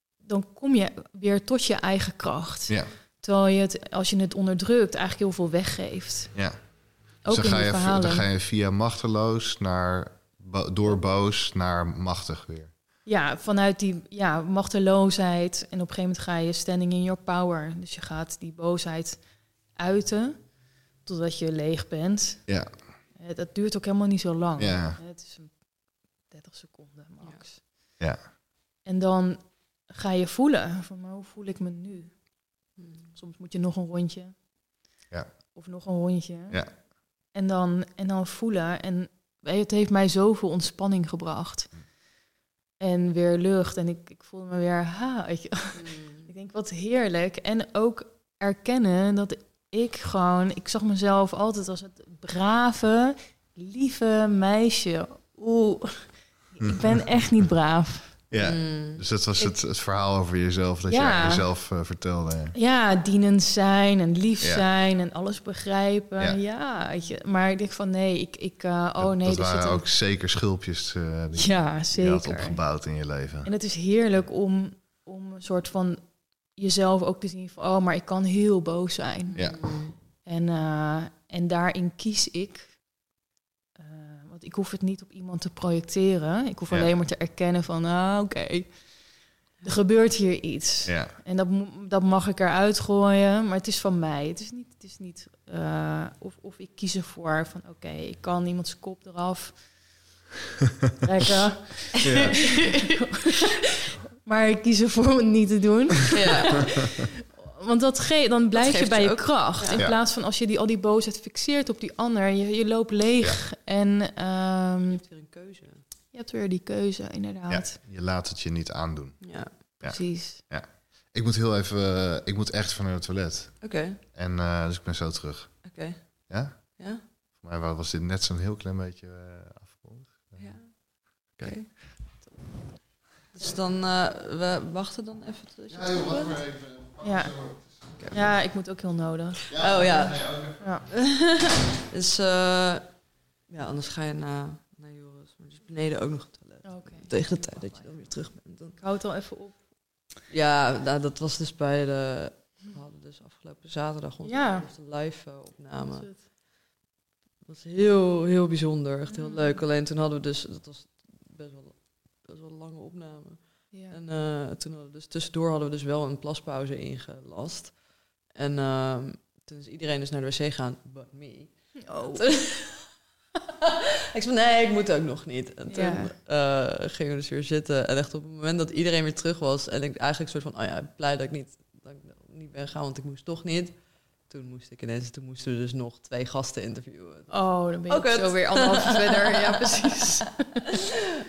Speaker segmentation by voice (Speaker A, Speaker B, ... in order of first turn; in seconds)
Speaker A: 0.2-6.4, 7.2-8.2, 13.0-27.6, 28.8-32.3, 33.1-34.4, 35.5-42.0, 42.8-58.2, 60.9-61.4, 62.5-69.8, 71.4-72.6, 73.4-82.8, 83.8-99.7, 101.0-115.0, 116.1-117.8, 119.8-120.4, 137.0-139.8, 140.6-140.8, 146.6-149.7, 154.2-154.7, 155.9-156.2, 159.1-159.6, 163.7-164.0, 171.8-172.4, 175.7-176.1, 187.3-190.6
Speaker B: 6.3-12.7, 22.5-22.8, 24.6-25.0, 58.3-62.5, 69.0-73.5, 79.3-79.7, 90.8-91.1, 102.0-102.4, 117.5-131.7, 135.7-138.0, 139.5-140.6
Speaker C: 32.8-33.1, 45.7-46.3, 58.4-59.0, 79.2-79.9, 102.3-102.7, 106.1-106.7, 108.5-109.8, 114.9-115.8, 119.2-119.6, 123.6-124.0, 125.6-127.0, 130.4-131.7, 133.3-136.4, 139.5-148.8, 150.3-156.3, 157.4-172.9, 173.6-190.4